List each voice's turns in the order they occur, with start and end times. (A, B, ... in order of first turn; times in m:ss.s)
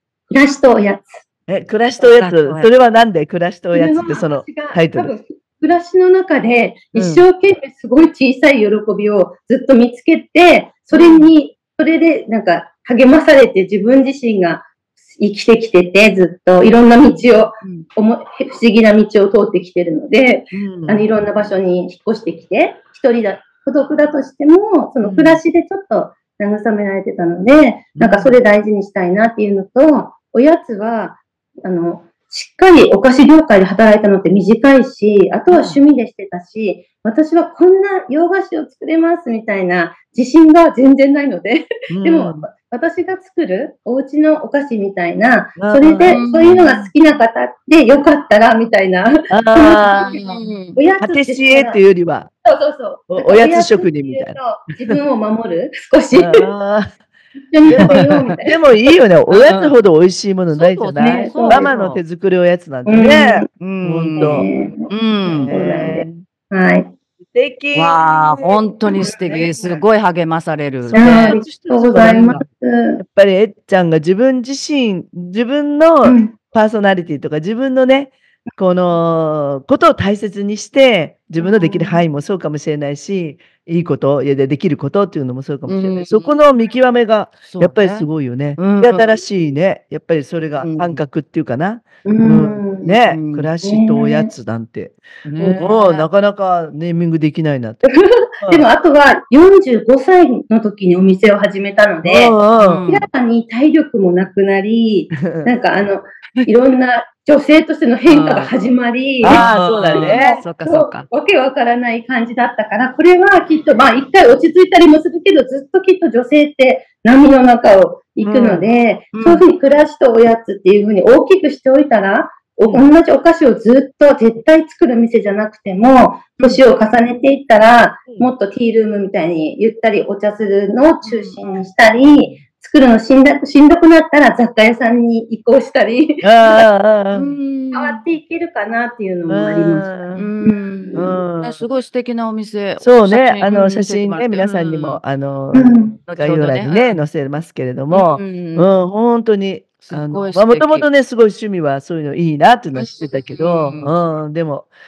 0:00.3-0:01.2 A
0:01.5-0:05.1 B
0:02.0-0:02.7 C
0:03.7-0:51.8 A
0:07.0-0:07.2 B
0:10.9-0:11.3 C
0:20.5-0:21.1 B
0:25.0-0:25.4 C
0:28.0-0:28.4 B
0:35.5-0:35.8 B
0:41.9-0:42.5 B
0:45.6-0:46.7 B
0:46.1-0:46.9 C
0:49.3-0:50.2 B
0:49.9-0:50.8 C
0:51.0-0:52.3 B
0:52.4-0:56.5 A
0:53.1-0:55.0 B
0:56.2-0:57.0 B
0:57.4-0:58.6 A
0:57.7-1:04.5 B
0:59.3-0:59.7 C
1:00.5-1:02.0 C
1:01.0-1:01.7 A
1:02.9-1:03.5 A
1:03.6-1:05.5 C
1:04.2-1:04.9 A
1:05.3-1:06.2 B
1:05.5-1:06.9 A
1:07.2-1:08.6 B
1:07.8-1:11.4 C
1:09.0-1:09.8 A
1:10.8-1:12.5 B
1:11.0-1:13.0 A
1:12.0-1:12.4 C
1:13.0-1:38.7 B
1:16.0-1:16.3 A
1:21.4-1:22.0 A
1:25.7-1:26.3 C
1:27.5-1:29.2 C
1:30.6-1:31.0 C
1:32.0-1:32.9 A
1:33.1-1:33.5 C
1:33.6-1:34.3 A
1:35.2-1:36.1 C
1:35.4-1:35.7 A
1:37.9-2:16.6 A
1:42.0-1:42.8 B
1:42.5-1:43.1 C
1:45.2-1:45.5 B
1:48.1-1:48.5 C
1:49.2-1:50.4 B
1:49.2-1:51.1 C
1:58.2-1:58.7 B
1:59.1-1:59.4 C
2:11.0-2:11.7 C
2:16.2-2:17.3 B
2:17.1-2:18.0 C
2:17.7-2:21.2 A
2:19.3-2:20.3 B
2:20.2-2:25.0 C
2:21.0-2:21.6 B
2:22.8-2:34.7 B
2:25.5-2:26.0 A
2:26.1-2:27.0 C
2:27.9-2:28.7 C
2:29.9-2:30.8 C
2:32.8-2:33.9 C